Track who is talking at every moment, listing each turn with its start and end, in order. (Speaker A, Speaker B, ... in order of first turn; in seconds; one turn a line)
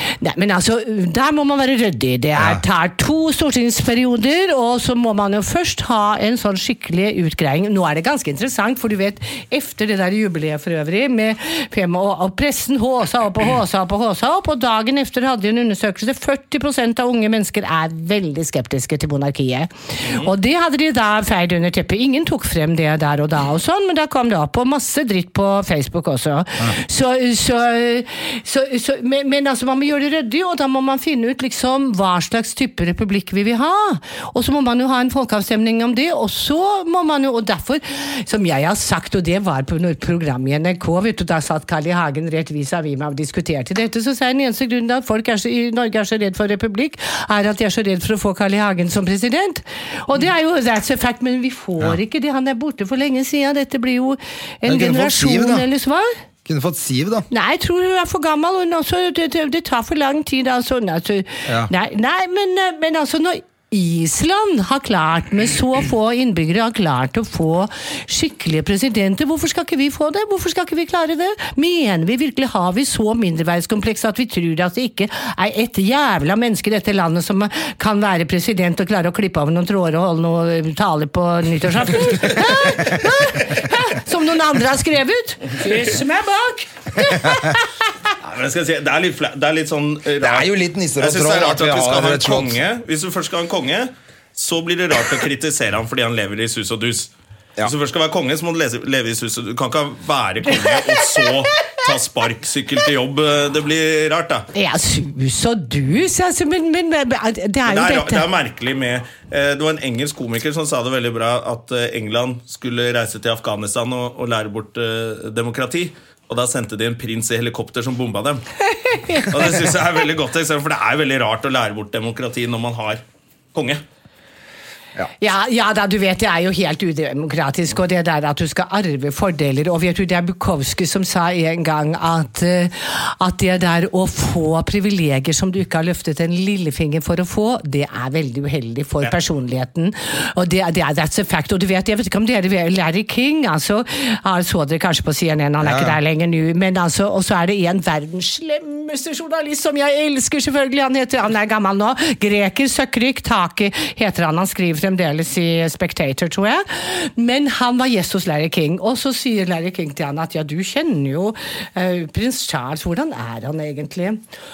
Speaker A: 0.2-56.1
Speaker B: 2.4-2.6
Speaker C: 20.0-20.3
Speaker B: 54.6-55.6
Speaker B: 56.5-57.3
Speaker A: 57.3-87.7
Speaker C: 88.2-104.5
Speaker B: 90.2-92.6
Speaker A: 104.5-108.3
Speaker C: 107.7-118.4
Speaker A: 118.8-119.4
Speaker C: 119.3-123.0
Speaker C: 123.5-123.8
Speaker A: 125.2-164.2
Speaker B: 145.6-146.0